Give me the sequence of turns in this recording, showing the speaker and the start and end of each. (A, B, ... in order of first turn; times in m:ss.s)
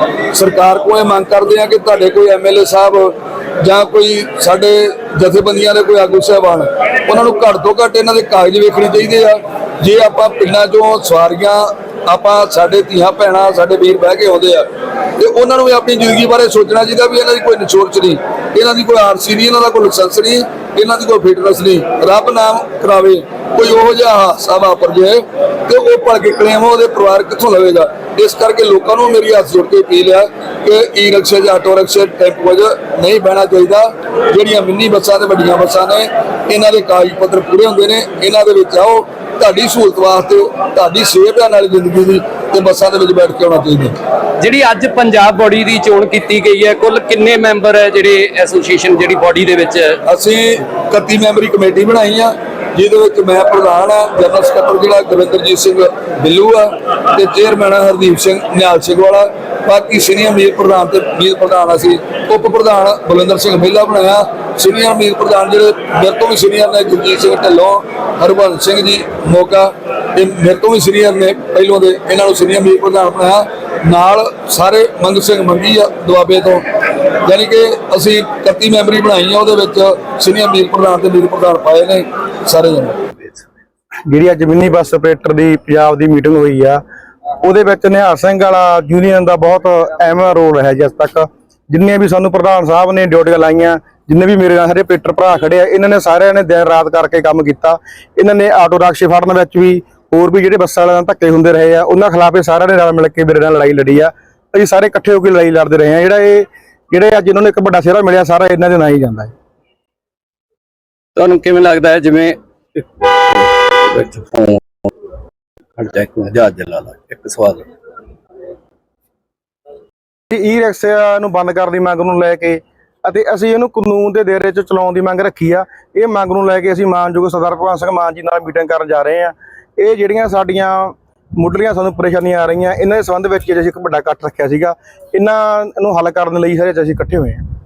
0:00.3-0:14.6 A
0:15.2-0:43.9 A
0:44.4-0:50.0 B
0:50.1-1:16.6 A
1:17.2-1:23.0 A
1:24.1-1:26.8 C
1:27.4-1:49.3 C
1:51.2-1:52.8 B
1:53.9-1:54.6 B
1:55.8-1:57.6 B
2:00.3-2:17.4 C